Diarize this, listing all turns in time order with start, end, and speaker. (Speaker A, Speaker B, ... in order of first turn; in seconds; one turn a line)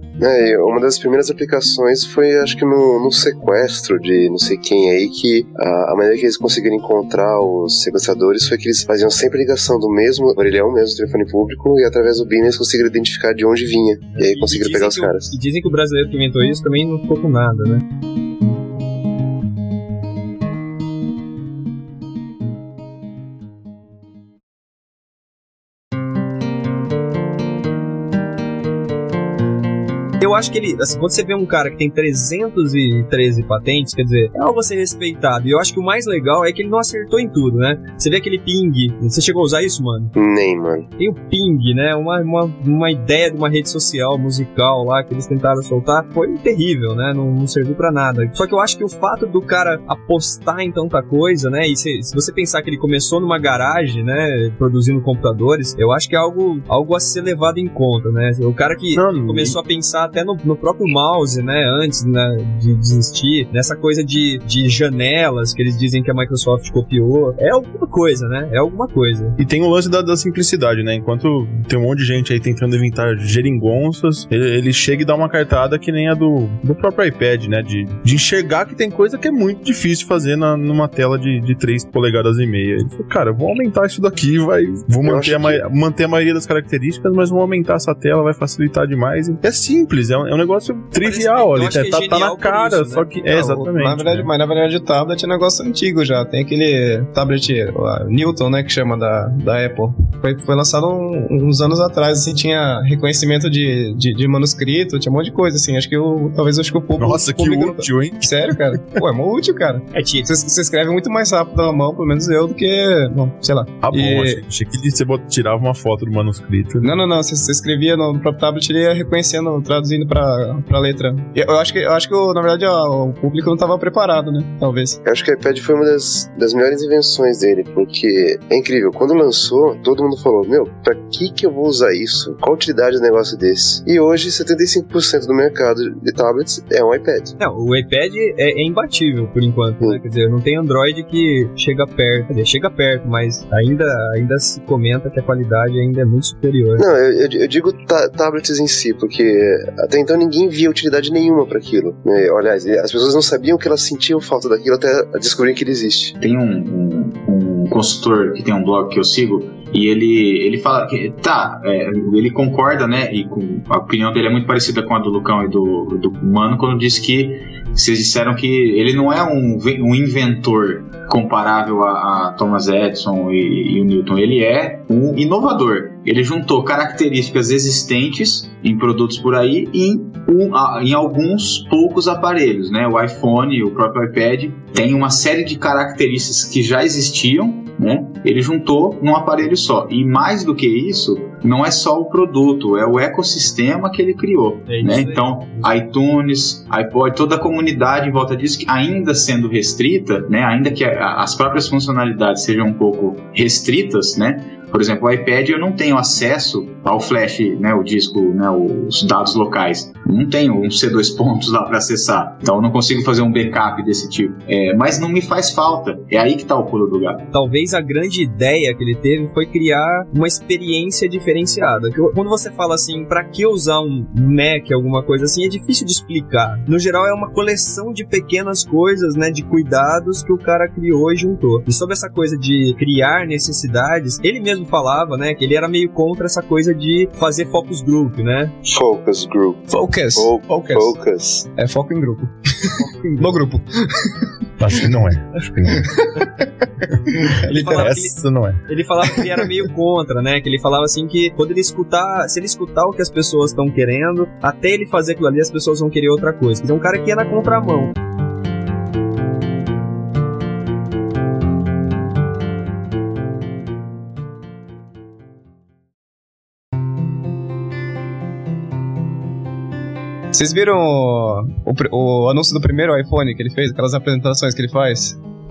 Speaker A: 0.2-15.3
Speaker B: 14.1-17.9
Speaker B: 30.2-40.1
Speaker A: 40.1-40.9
Speaker B: 41.0-69.3
Speaker C: 58.9-59.6
Speaker C: 69.4-94.3
Speaker A: 85.0-85.6
Speaker B: 91.0-93.1
Speaker D: 93.3-114.4
Speaker C: 107.0-108.5
Speaker B: 109.9-110.3
Speaker C: 113.8-116.9
Speaker D: 116.8-125.0
Speaker A: 125.0-137.3
Speaker B: 137.4-146.8
Speaker A: 146.8-156.1
Speaker E: 156.2-217.3
Speaker B: 194.7-195.7
Speaker B: 217.3-238.5
Speaker A: 238.7-241.5
Speaker D: 239.7-240.9
Speaker D: 241.5-244.3
Speaker C: 244.6-246.2
Speaker C: 247.0-248.6
Speaker B: 247.4-257.9
Speaker D: 270.3-275.2